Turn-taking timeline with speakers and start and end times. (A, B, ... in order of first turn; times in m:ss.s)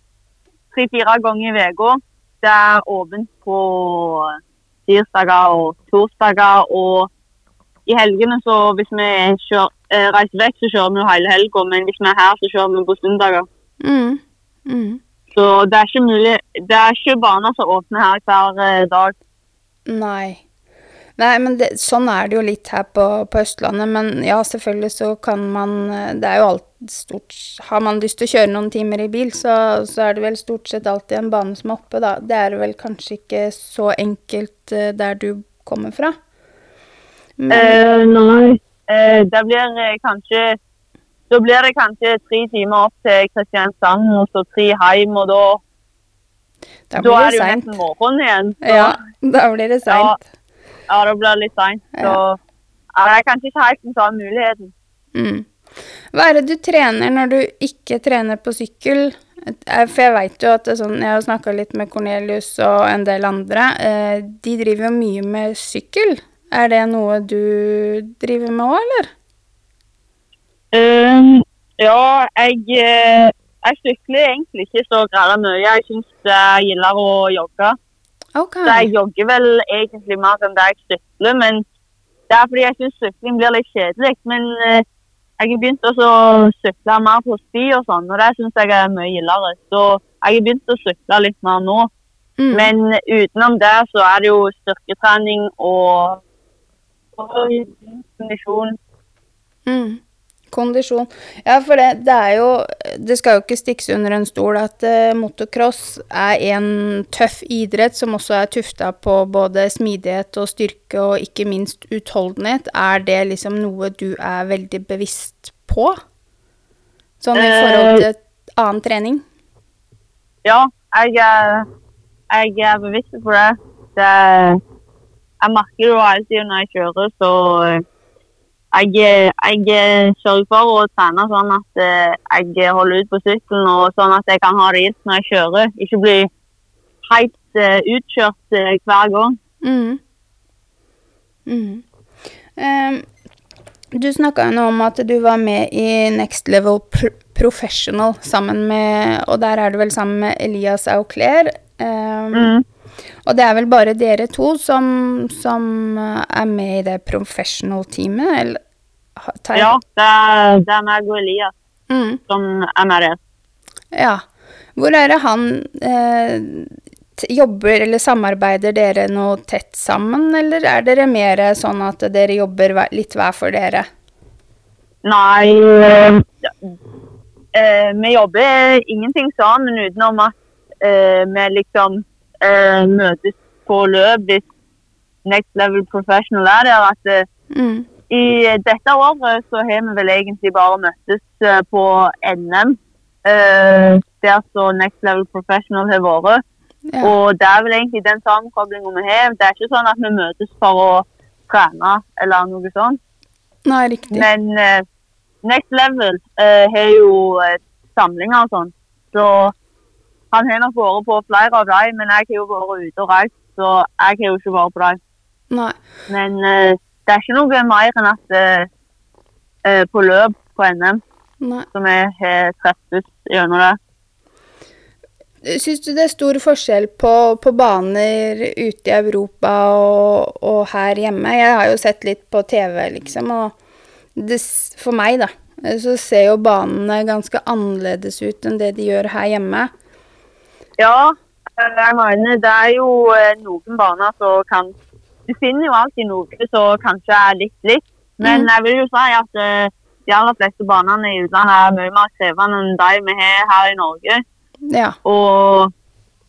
0:00.7-0:07.1 A
0:07.9-0:13.5 A
0:13.8-0:15.0 B
0:15.3-0:19.1 A
0:19.9-0:20.4 B
0:21.2-0:36.2 B
0:37.4-0:37.8 B
0:37.5-0:40.6 A
0:41.3-0:45.6 A
0:46.9-0:47.7 B
0:47.0-0:49.0 A
0:48.6-0:50.2 B
0:49.9-0:50.2 A
0:50.9-0:52.4 A
0:53.0-0:54.7 A
0:55.2-0:55.5 B
0:56.1-1:09.1 B
1:10.7-1:17.8 A
1:18.4-1:18.9 B
1:18.6-1:21.6 A
1:22.3-1:24.8 A
1:25.4-1:31.9 A
1:32.4-1:32.7 B
1:32.5-1:36.2 A
1:37.2-1:38.8 A
1:39.7-1:56.0 B
1:57.2-1:59.2 B
1:57.3-1:58.1 A
2:00.4-2:01.7 A
2:02.3-2:04.6 A
2:05.4-2:07.8 A
2:08.7-2:16.3 A
2:17.1-2:19.4 A
2:19.6-2:20.0 B
2:21.5-2:21.8 B
2:22.6-2:23.1 B
2:23.9-2:32.5 B
2:32.3-2:32.6 A
2:33.2-2:38.6 B
2:39.2-2:39.8 B
2:39.6-2:41.5 A
2:41.9-2:42.2 B
2:42.3-2:43.2 A
2:43.9-2:44.2 B
2:44.8-2:53.9 B
2:55.0-2:56.5 A
2:57.5-3:04.4 A
3:05.2-3:07.3 A
3:07.5-3:07.9 B
3:08.1-3:16.4 A
3:16.9-3:17.1 B
3:17.0-3:23.0 A
3:23.7-3:24.3 B
3:24.1-3:24.8 A
3:25.4-3:29.5 A
3:30.3-3:35.0 A
3:35.5-3:35.8 B
3:36.1-3:38.7 A
3:39.6-3:41.0 A
3:41.4-3:41.7 B
3:41.7-3:43.8 A
3:45.4-3:53.6 B
3:54.2-3:59.7 B
4:00.8-4:04.7 A
4:05.3-4:14.2 A
4:08.2-4:08.5 B
4:14.7-4:15.0 B
4:15.0-4:15.7 A